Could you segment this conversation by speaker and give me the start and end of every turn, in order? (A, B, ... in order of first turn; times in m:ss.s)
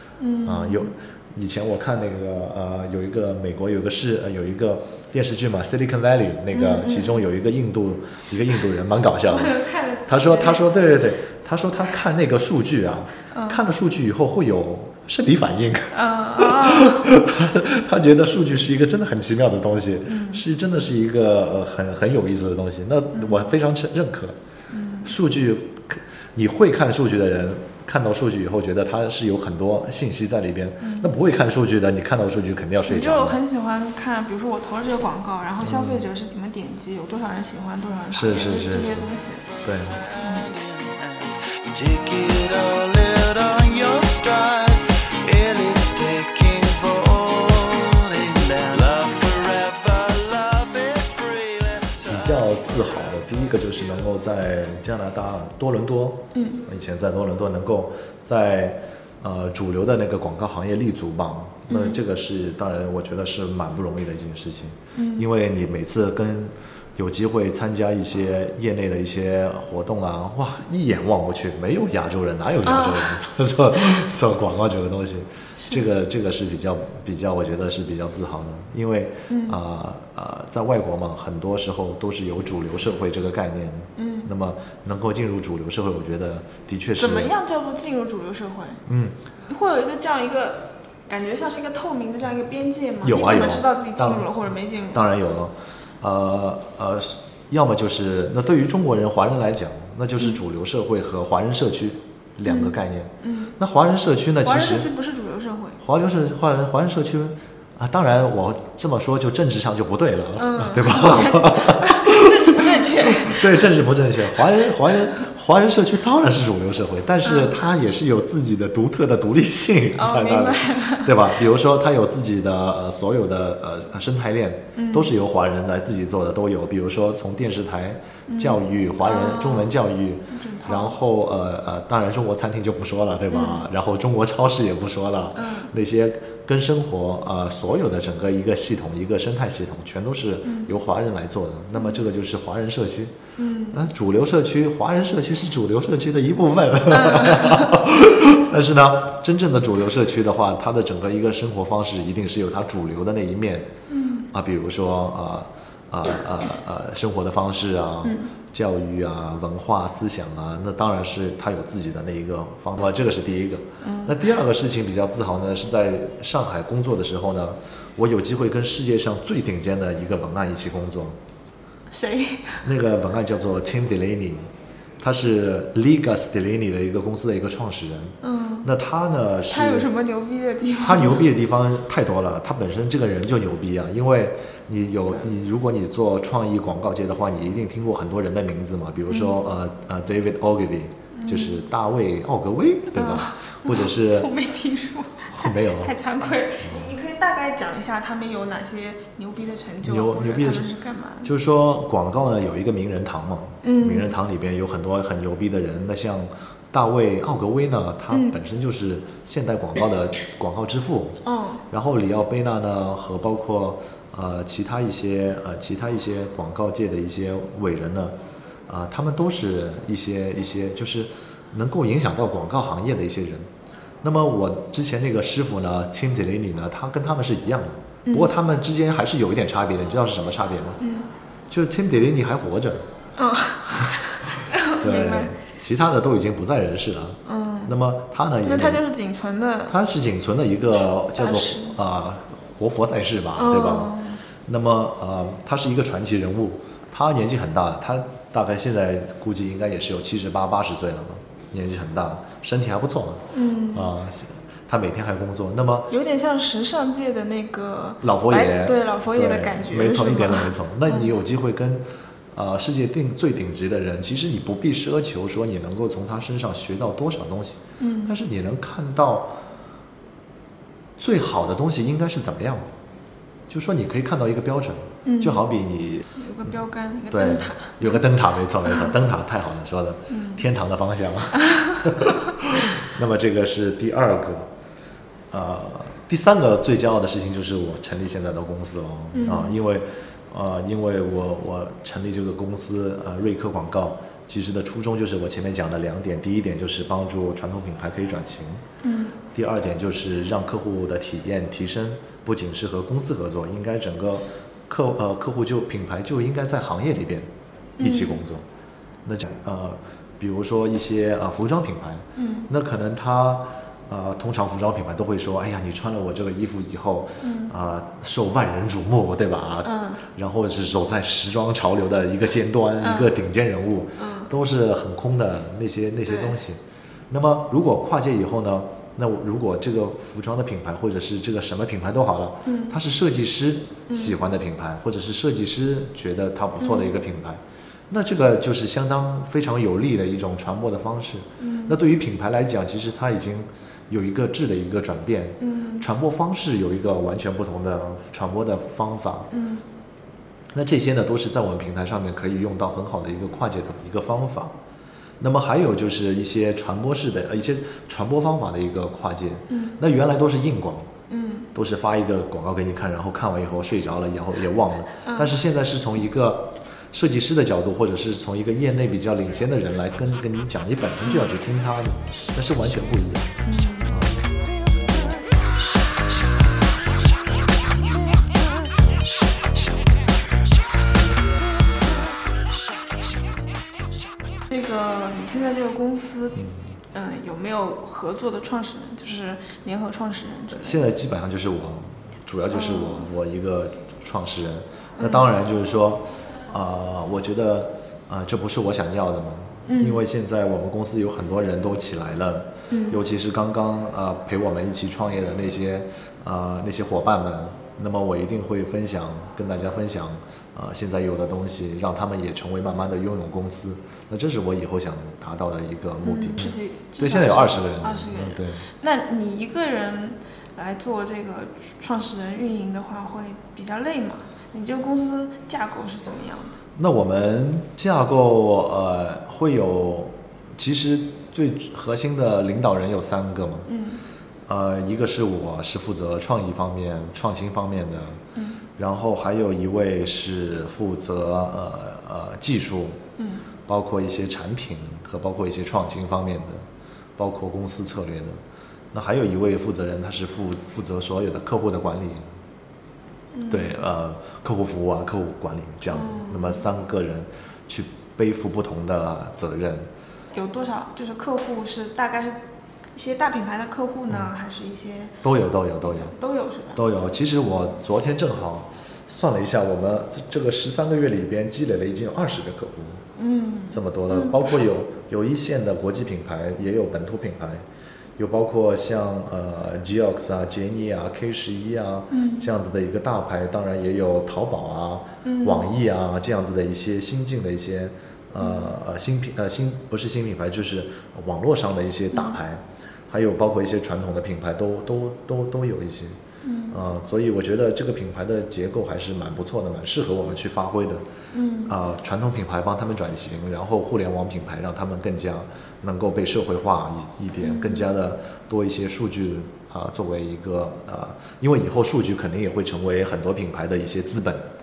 0:00.2-0:00.9 A
0:00.4-0:24.3 B
0:06.5-0:07.2 A
0:09.2-0:10.6 A
0:13.3-0:13.6 A
0:15.9-0:17.1 A
0:20.1-0:20.4 A
0:23.1-0:23.5 A
0:24.7-0:25.1 A
0:25.0-0:33.4 B
0:30.8-0:31.1 A
0:32.9-0:39.4 A
0:35.6-0:36.0 B
0:38.1-0:39.1 B
0:39.6-0:40.0 B
0:40.0-0:52.4 C
0:40.2-0:40.5 A
0:52.1-1:27.3 B
0:56.3-0:56.6 A
1:01.7-1:02.0 A
1:04.9-1:05.3 A
1:12.6-1:13.1 A
1:19.3-1:19.6 A
1:24.0-1:24.3 A
1:27.0-1:28.8 A
1:28.8-1:29.1 B
1:29.5-1:35.0 A
1:33.0-1:34.3 B
1:34.9-1:44.9 B
1:42.4-1:43.5 A
1:44.4-1:45.8 A
1:45.8-2:23.2 B
1:50.4-1:53.7 A
1:57.2-1:57.5 A
2:00.0-2:01.3 A
2:04.7-2:05.1 A
2:08.3-2:09.7 A
2:10.3-2:11.0 A
2:13.3-2:13.6 A
2:15.3-2:15.7 A
2:20.4-2:20.7 A
2:21.7-2:22.0 A
2:23.4-2:23.8 A
2:23.7-2:33.7 B
2:26.9-2:27.8 A
2:33.9-2:34.3 A
2:34.3-2:51.2 B
2:38.0-2:38.3 A
2:43.8-2:44.2 A
2:51.9-2:52.6 A
2:52.6-2:54.5 B
2:55.0-2:59.9 B
2:58.2-2:58.7 A
2:59.5-3:01.3 A
3:00.8-3:14.3 B
3:09.1-3:09.4 A
3:11.1-3:11.6 A
3:12.9-3:21.3 A
3:15.3-3:15.9 B
3:16.6-3:16.9 B
3:19.8-3:20.6 B
3:21.2-3:31.2 B
3:23.6-3:24.1 A
3:28.1-3:28.4 A
3:31.2-3:31.6 A
3:31.7-3:38.1 B
3:38.7-3:43.5 B
3:44.0-3:50.8 B
3:48.1-3:48.3 A
3:50.8-3:51.1 A
3:51.5-3:52.8 B
3:53.2-3:55.3 A
3:54.7-3:58.8 B
3:57.2-3:57.7 A
3:58.4-3:59.8 A
3:59.7-4:03.9 B
4:01.1-4:01.7 A
4:03.4-4:04.2 A
4:04.4-4:15.9 B
4:13.3-4:13.9 A
4:15.9-4:21.1 A
4:18.0-4:29.3 B
4:27.8-4:28.1 A
4:31.0-4:32.8 B
4:33.5-4:36.1 B
4:35.0-4:35.4 A
4:36.1-4:38.0 A
4:37.1-4:44.5 B
4:40.1-4:40.4 A
4:41.5-4:41.9 A
4:45.3-4:58.6 B
4:49.1-4:49.6 A
4:58.8-4:59.2 A
4:59.3-5:07.3 B
5:07.8-5:08.2 A
5:07.8-5:08.4 B
5:09.0-5:49.3 B
5:12.1-5:12.5 A
5:17.2-5:17.5 A
5:19.6-5:20.0 A
5:22.8-5:23.1 A
5:24.0-5:24.3 A
5:26.1-5:26.4 A
5:32.4-5:32.8 A
5:33.9-5:34.2 A
5:36.6-5:36.9 A
5:41.4-5:41.8 A
5:45.4-5:45.8 A
5:49.3-5:49.6 A
5:50.5-5:54.5 B
5:55.2-6:00.9 B
5:59.5-5:59.8 A
6:01.1-6:01.5 A
6:01.5-6:13.4 B
6:05.0-6:05.4 A
6:13.4-6:14.0 A
6:13.9-6:14.2 B
6:24.5-6:26.4 A
6:26.3-6:26.8 B
6:26.9-6:30.8 A
6:30.5-6:58.6 B
6:32.5-6:33.1 A
6:35.0-6:35.3 A
6:39.6-6:40.0 A
6:42.7-6:43.0 A
6:56.0-7:06.6 A
7:06.8-7:13.7 B
7:13.7-7:14.0 A
7:14.5-7:18.2 B
7:18.3-7:18.6 A
7:18.8-7:23.0 B
7:23.2-7:23.4 A
7:23.6-7:26.6 B
7:27.2-7:28.4 B
7:28.9-7:32.2 B
7:33.3-7:33.8 A
7:33.5-7:39.9 B
7:35.9-7:36.6 A
7:40.3-7:42.4 A
7:42.9-7:45.2 A
7:45.2-7:46.1 B
7:45.8-7:46.8 A
7:46.7-7:53.0 B
7:53.2-7:54.6 A
7:53.7-7:57.6 B
7:58.2-8:16.2 B
8:02.1-8:02.5 A
8:05.2-8:05.7 A
8:08.4-8:08.8 A
8:12.1-8:12.4 A
8:16.4-8:16.8 A
8:16.7-8:21.0 B
8:21.3-8:21.7 A
8:21.7-8:34.4 B
8:27.4-8:27.9 A